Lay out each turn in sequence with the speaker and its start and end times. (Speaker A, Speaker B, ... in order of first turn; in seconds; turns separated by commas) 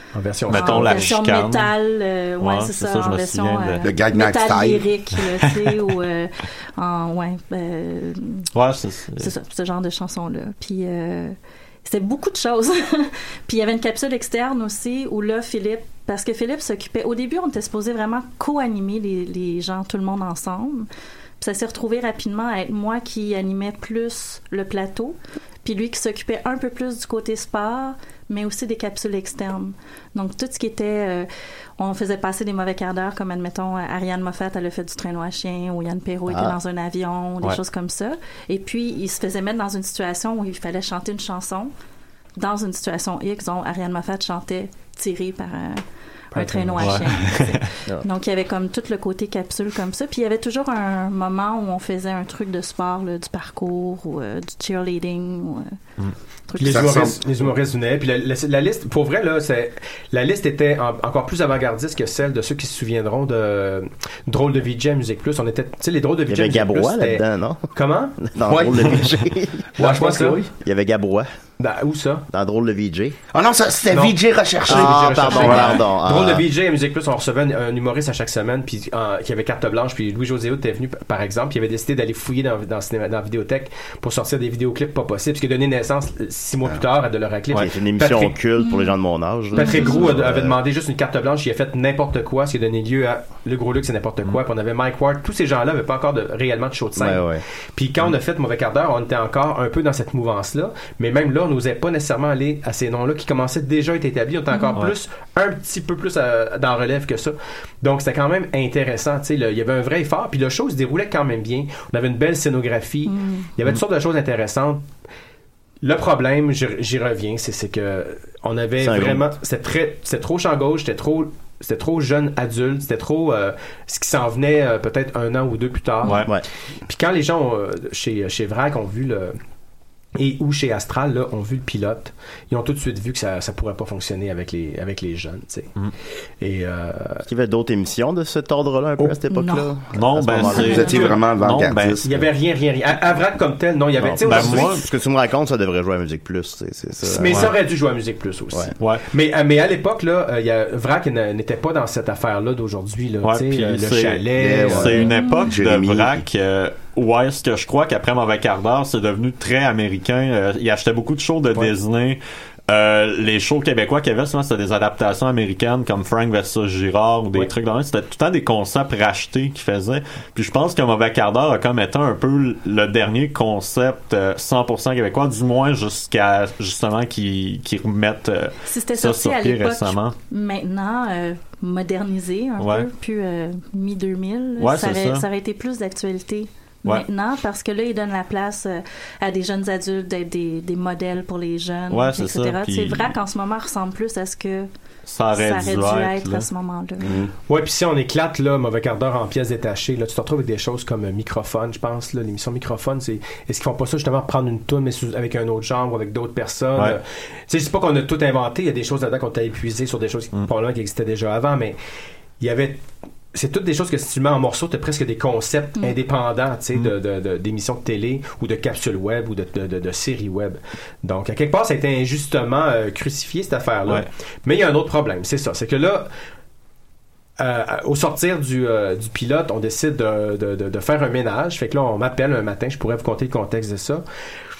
Speaker A: 0.1-1.2, Speaker B: 0.5-1.7, Speaker C: 0.5-8.5, Speaker B: 2.4-3.9, Speaker D: 3.8-4.8, Speaker B: 8.5-9.3, Speaker C: 9.2-20.9, Speaker C: 21.4-31.3, Speaker C: 31.8-41.7, Speaker E: 36.3-36.5, Speaker C: 42.4-45.8, Speaker A: 46.3-47.1, Speaker C: 46.3-55.8, Speaker B: 46.8-47.7, Speaker C: 56.5-57.1, Speaker A: 56.6-68.2, Speaker D: 56.6-57.2, Speaker E: 66.3-67.7, Speaker E: 68.2-69.7, Speaker D: 68.4-69.1, Speaker A: 69.8-70.4, Speaker D: 69.8-70.5, Speaker E: 70.6-71.3, Speaker A: 71.6-72.2, Speaker E: 72.3-73.2, Speaker D: 73.3-75.7, Speaker A: 73.9-88.3, Speaker E: 74.7-76.5, Speaker B: 75.5-75.8, Speaker E: 87.5-90.6, Speaker C: 88.6-88.9, Speaker A: 89.5-114.8, Speaker C: 89.5-90.0, Speaker E: 97.0-97.4, Speaker C: 104.5-104.8, Speaker C: 113.0-113.5, Speaker A: 115.8-126.2, Speaker E: 118.8-119.3, Speaker A: 126.9-129.3, Speaker A: 130.2-135.7, Speaker A: 136.4-137.2, Speaker E: 137.2-140.9, Speaker C: 139.3-139.7, Speaker B: 139.9-142.0, Speaker C: 140.5-141.1, Speaker D: 140.6-142.3, Speaker A: 142.0-144.8, Speaker E: 144.0-147.5, Speaker B: 144.2-144.8, Speaker A: 147.0-154.9, Speaker B: 148.8-149.0, Speaker B: 153.2-180.2, Speaker D: 154.3-156.2, Speaker E: 154.5-154.9, Speaker C: 154.9-155.5, Speaker C: 178.6-194.7, Speaker B: 182.6-182.9, Speaker B: 184.6-185.2, Speaker B: 191.9-193.1, Speaker B: 195.1-196.5, Speaker C: 195.3-197.2, Speaker D: 197.0-197.3, Speaker A: 197.5-211.8, Speaker A: 212.4-226.1, Speaker A: 227.4-234.0